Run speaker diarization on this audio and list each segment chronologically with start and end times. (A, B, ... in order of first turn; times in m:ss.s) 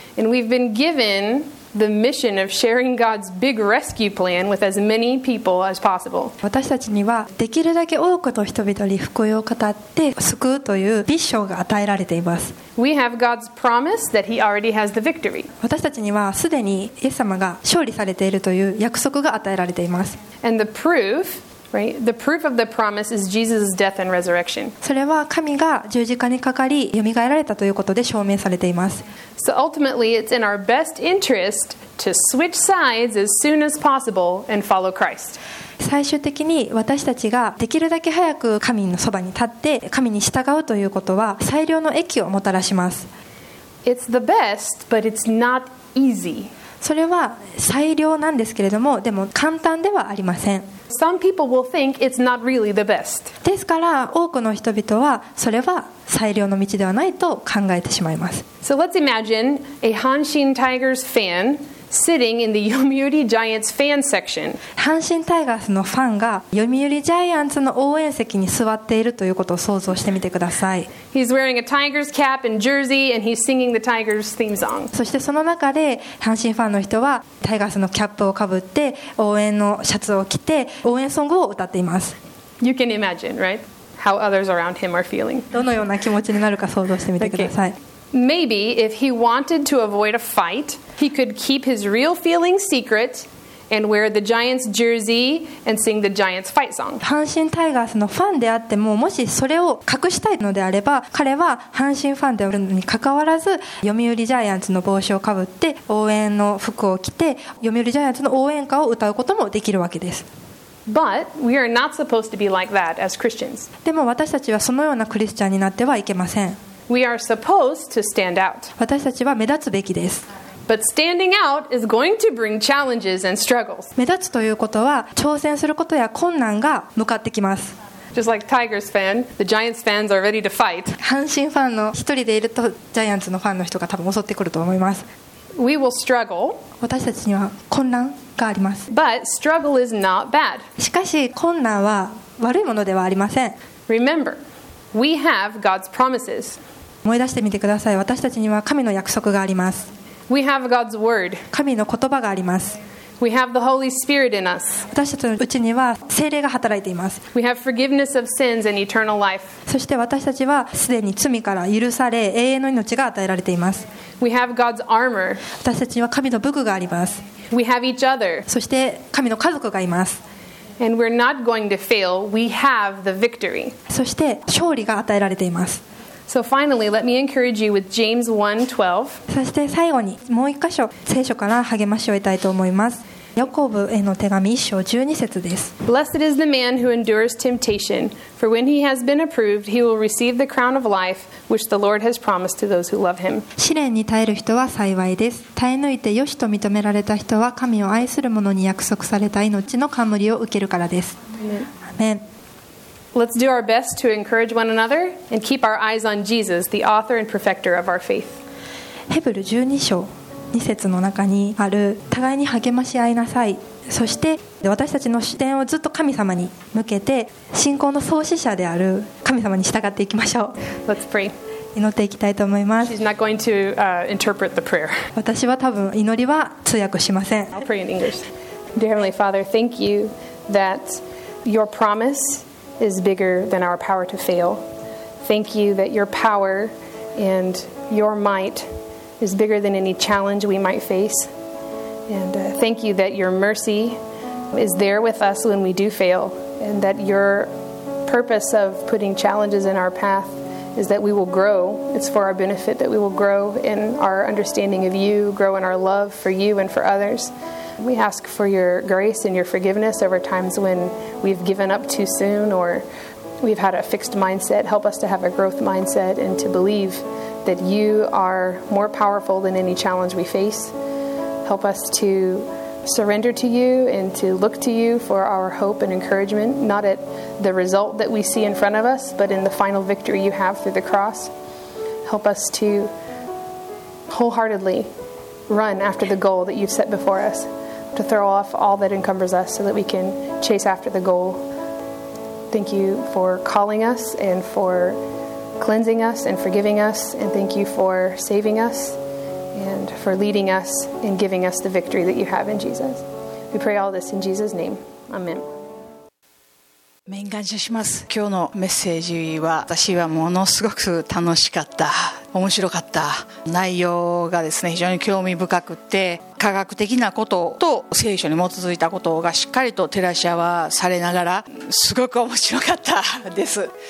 0:00.2-0:06.3 A
0:06.4-0:12.6 B
0:12.8-0:15.5 A
0:15.6-0:20.2 B
0:20.4-0:24.7 A
0:24.8-0:29.0 B
0:29.4-0:35.4 A
0:35.8-0:43.1 B
0:43.8-0:46.5 A
0:46.8-0:50.7 B
0:50.9-0:53.3 A
0:53.4-0:58.4 B
0:58.6-1:04.6 A
1:04.8-1:10.9 B
1:11.1-1:14.9 A
1:14.9-1:22.2 B
1:22.6-1:25.5 A
1:25.5-1:27.8 B
1:27.2-1:27.5 A
1:28.1-1:37.0 A
1:37.0-1:50.2 B
1:50.9-1:53.7 A
1:53.8-1:56.6 B
1:56.9-1:58.7 A
1:58.8-2:00.2 B
2:00.7-2:03.9 A
2:04.0-2:07.7 B
2:08.1-2:11.0 A
2:11.0-2:15.0 B
2:15.5-2:16.6 A
2:16.8-2:18.9 B
2:18.9-2:20.7 A
2:20.8-2:23.6 B
2:23.9-2:24.4 A
2:24.9-2:26.6 A
2:27.0-2:29.9 B
2:30.3-2:31.4 A
2:31.5-2:32.8 B
2:33.2-2:34.9 A
2:34.9-2:37.2 B
2:37.3-2:39.5 A
2:39.7-2:43.8 B
2:44.2-2:45.4 A
2:45.6-2:47.2 B
2:47.5-2:48.4 A
2:48.5-2:50.2 B
2:50.8-2:53.8 A
2:53.9-2:55.8 B
2:56.3-2:59.2 A
2:59.3-3:05.7 B
3:05.8-3:13.5 A
3:13.6-3:21.2 B
3:21.4-3:21.7 A
3:21.8-3:22.2 B
3:23.1-3:28.4 A
3:29.1-3:40.6 B
3:40.8-3:41.3 A
3:41.7-3:42.9 B
3:42.8-3:45.1 A
3:45.2-3:47.5 B
3:47.5-3:54.6 A
3:55.2-4:01.3 A
4:02.1-4:04.0 A
4:04.5-4:07.5 A
4:08.0-4:22.8 A
4:23.4-4:30.7 A
4:31.4-4:41.3 A
4:42.0-4:42.9 A
4:44.1-4:44.9 A
4:45.5-4:51.4 A
4:52.5-4:55.0 A
4:55.6-4:59.0 A
4:59.5-5:05.5 A
5:07.1-5:23.7 C